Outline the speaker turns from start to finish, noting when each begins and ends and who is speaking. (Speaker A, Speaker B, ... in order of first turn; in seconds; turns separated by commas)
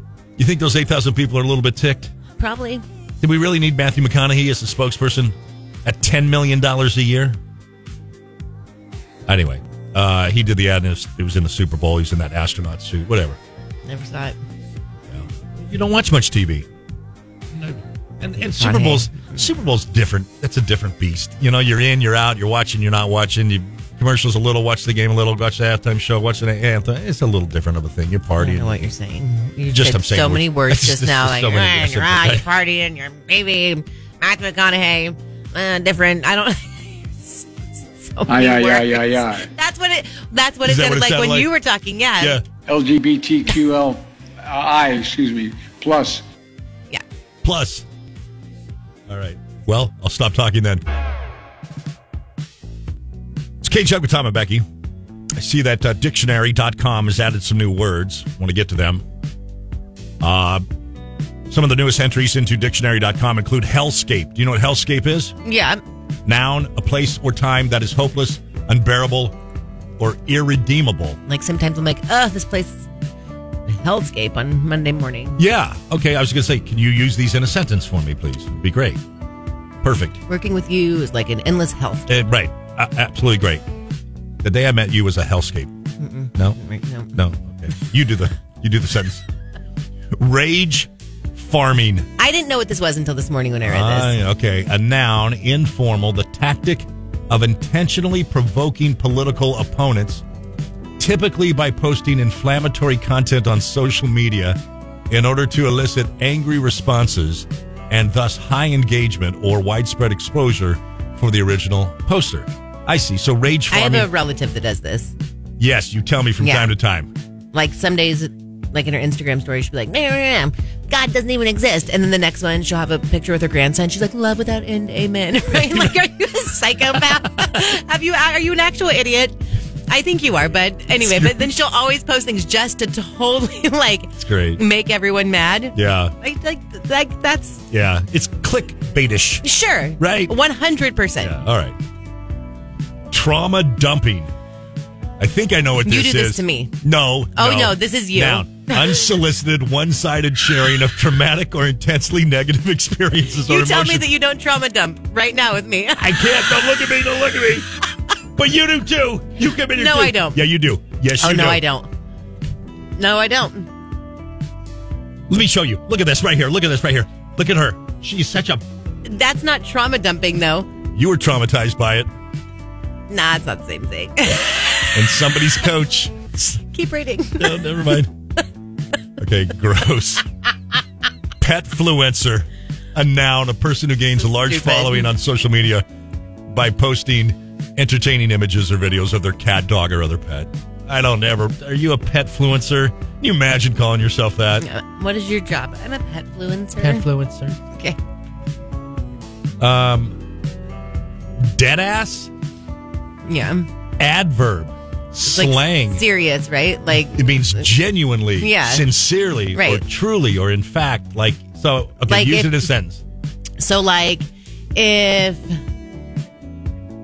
Speaker A: 0.4-2.1, Speaker B: 2.4-2.8, Speaker A: 3.2-7.4, Speaker A: 9.3-13.4, Speaker B: 13.8-14.4, Speaker A: 15.1-16.7, Speaker A: 17.5-28.8, Speaker B: 18.4-19.4, Speaker B: 28.4-42.4, Speaker A: 29.7-32.5, Speaker C: 38.3-39.5, Speaker A: 40.6-41.5, Speaker A: 42.2-42.4, Speaker C: 42.7-46.2, Speaker A: 47.4-47.8, Speaker A: 49.1-50.8, Speaker A: 53.6-54.6, Speaker A: 55.4-59.0, Speaker A: 60.2-60.6, Speaker A: 61.5-65.3, Speaker B: 65.4-65.8, Speaker A: 66.2-69.3, Speaker A: 70.0-71.2, Speaker B: 71.3-72.9, Speaker B: 73.7-75.4, Speaker A: 75.4-79.0, Speaker A: 79.8-80.2, Speaker B: 80.3-82.1, Speaker A: 82.1-83.6, Speaker A: 84.4-85.7, Speaker B: 86.0-87.1, Speaker A: 87.1-89.2, Speaker A: 90.1-92.1, Speaker B: 92.2-94.1, Speaker A: 93.6-100.2, Speaker A: 101.0-104.6, Speaker A: 105.1-114.1, Speaker B: 113.7-115.1, Speaker A: 115.6-117.1, Speaker B: 116.4-116.7, Speaker B: 117.5-137.6, Speaker A: 125.5-125.9, Speaker A: 126.9-127.6, Speaker A: 131.0-131.5, Speaker A: 134.2-134.6, Speaker A: 135.7-136.1, Speaker A: 137.7-139.4, Speaker B: 139.4-141.4, Speaker A: 140.0-140.3, Speaker A: 141.2-141.8, Speaker A: 143.1-144.3, Speaker A: 145.2-154.1, Speaker B: 145.8-146.7, Speaker B: 147.3-149.1, Speaker B: 153.4-156.4, Speaker A: 156.0-157.7, Speaker A: 158.3-161.6, Speaker B: 159.7-160.4, Speaker B: 161.2-161.9, Speaker B: 163.0-163.7, Speaker A: 165.3-168.6, Speaker B: 169.0-170.7, Speaker A: 170.9-172.1, Speaker B: 173.1-174.9, Speaker A: 174.9-176.6, Speaker B: 176.7-178.0, Speaker A: 177.4-178.1, Speaker A: 179.2-180.2, Speaker A: 181.4-185.8, Speaker B: 184.2-185.1, Speaker A: 186.5-194.7, Speaker B: 194.6-197.0, Speaker A: 196.8-197.6, Speaker A: 199.6-200.2, Speaker A: 201.4-202.3, Speaker B: 203.2-203.7, Speaker A: 204.0-206.0, Speaker B: 205.2-207.7, Speaker A: 207.1-213.0, Speaker B: 208.4-208.9, Speaker B: 209.5-209.8, Speaker B: 212.1-212.7, Speaker B: 213.6-215.6